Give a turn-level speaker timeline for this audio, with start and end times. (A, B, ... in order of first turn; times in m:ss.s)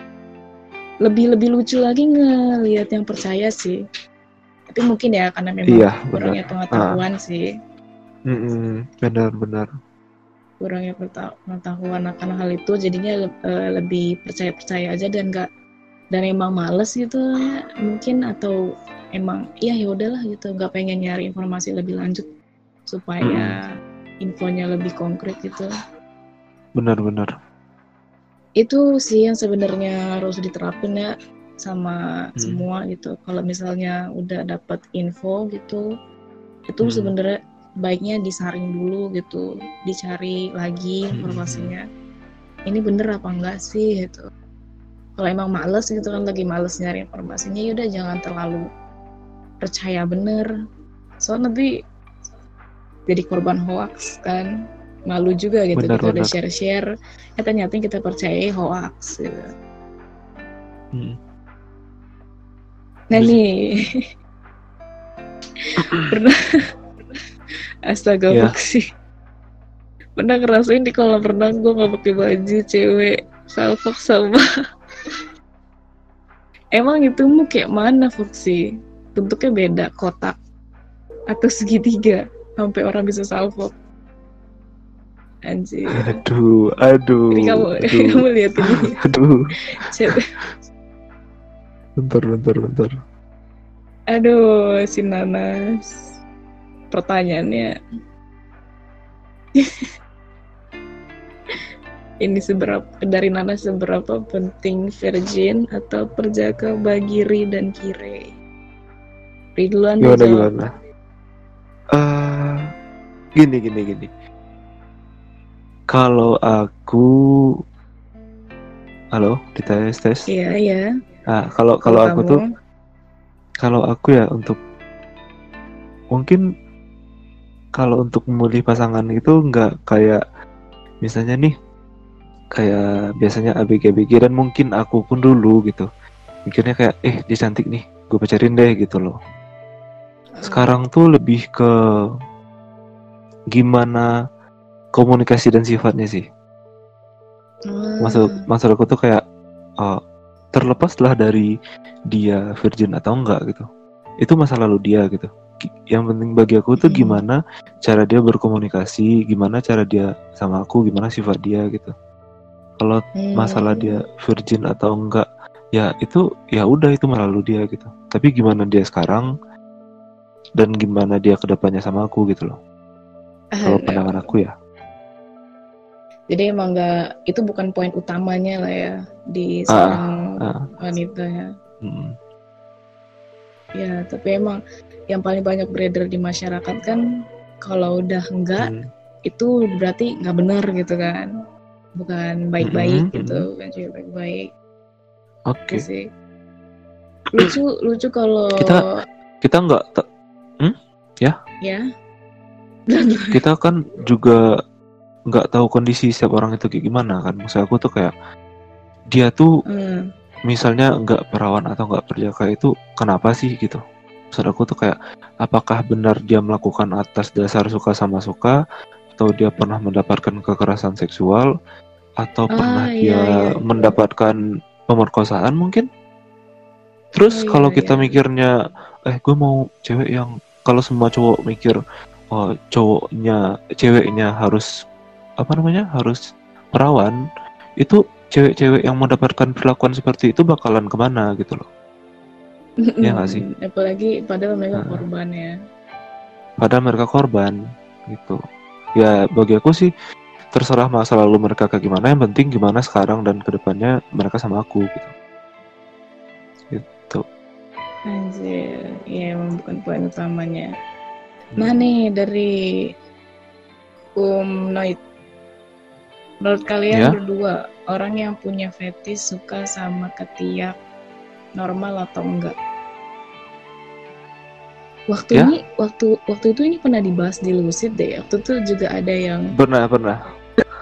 0:01.0-0:03.8 A
0:04.7-0:07.4 A
0:05.7-0:07.0 B
0:08.3-0:09.7 B
0:10.6-0:15.5 A
0:16.1-0:18.6 A
0:19.2-0:22.3 A
0:22.9-0:23.6 A
0:23.2-0:23.5 B
0:24.2-0:25.7 A
0:26.8-0:27.3 B
0:28.6-0:35.8 A
0:36.7-0:41.8 A
0:36.8-0:37.1 B
0:41.1-0:41.7 B
0:42.7-0:44.2 A
0:45.2-0:48.6 A
0:49.6-0:50.5 A
0:51.2-0:51.7 A
0:53.1-0:54.5 A
0:55.1-0:56.9 A
0:55.8-0:56.3 B
0:57.4-0:59.5 A
1:03.1-1:04.0 A
1:06.1-1:06.4 A
1:07.9-1:08.8 A
1:10.2-1:14.4 A
1:16.8-1:18.6 A
1:19.2-1:20.4 A
1:21.3-1:23.7 A
1:25.5-1:26.2 A
1:26.0-1:28.2 B
1:27.3-1:29.0 A
1:28.8-1:29.4 B
1:29.8-1:30.2 A
1:32.0-1:33.0 B
1:34.1-1:36.0 A
1:36.9-1:37.7 A
1:42.2-1:48.3 A
1:49.6-1:50.5 A
1:50.0-1:50.7 B
1:51.9-1:52.7 B
1:53.4-1:54.1 B
1:55.9-1:57.5 B
1:59.1-2:00.3 B
2:00.3-2:00.8 A
2:01.3-2:02.4 B
2:01.8-2:02.4 A
2:03.6-2:04.6 B
2:06.1-2:06.4 B
2:07.8-2:10.2 B
2:11.0-2:11.5 B
2:12.6-2:15.9 B
2:16.5-2:19.2 B
2:20.4-2:20.7 A
2:20.5-2:21.7 B
2:23.5-2:24.1 B
2:24.9-2:26.2 B
2:27.7-2:28.4 A
2:28.0-2:29.2 B
2:30.5-2:31.5 B
2:32.1-2:33.7 B
2:34.2-2:41.9 B
2:36.8-2:37.2 A
2:42.8-2:49.3 B
2:43.2-2:44.0 A
2:50.6-2:52.6 B
2:53.6-2:54.3 A
2:53.6-2:54.5 B
2:56.3-3:00.2 A
2:59.7-3:00.6 B
3:00.8-3:01.5 A
3:01.8-3:02.2 B
3:03.8-3:04.6 A
3:05.1-3:07.0 A
3:07.6-3:08.7 A
3:08.6-3:08.9 B
3:09.3-3:11.3 A
3:12.0-3:14.5 A
3:12.6-3:13.5 B
3:15.5-3:15.9 B
3:15.7-3:16.0 A
3:17.3-3:18.8 A
3:18.6-3:18.8 B
3:19.4-3:20.0 B
3:20.6-3:21.4 B
3:22.9-3:23.4 A
3:23.3-3:24.4 B
3:25.3-3:28.1 B
3:29.1-3:29.5 B
3:29.7-3:30.1 A
3:30.5-3:33.8 B
3:34.3-3:38.6 B
3:39.2-3:41.5 B
3:42.2-3:45.9 B
3:42.6-3:44.0 A
3:47.1-3:48.5 B
3:47.3-3:48.2 A
3:49.1-3:54.7 B
3:55.4-3:56.2 B
3:56.7-3:57.2 B
3:57.8-4:01.7 B
4:02.9-4:05.5 A
4:03.0-4:03.4 B
4:04.8-4:05.0 B
4:06.6-4:08.4 B
4:09.0-4:09.9 B
4:10.5-4:15.1 B
4:16.7-4:17.2 B
4:18.1-4:20.7 A
4:21.6-4:22.5 A
4:24.2-4:25.0 A
4:26.4-4:30.8 A
4:31.6-4:32.6 A
4:35.1-4:39.5 A
4:39.6-4:40.2 B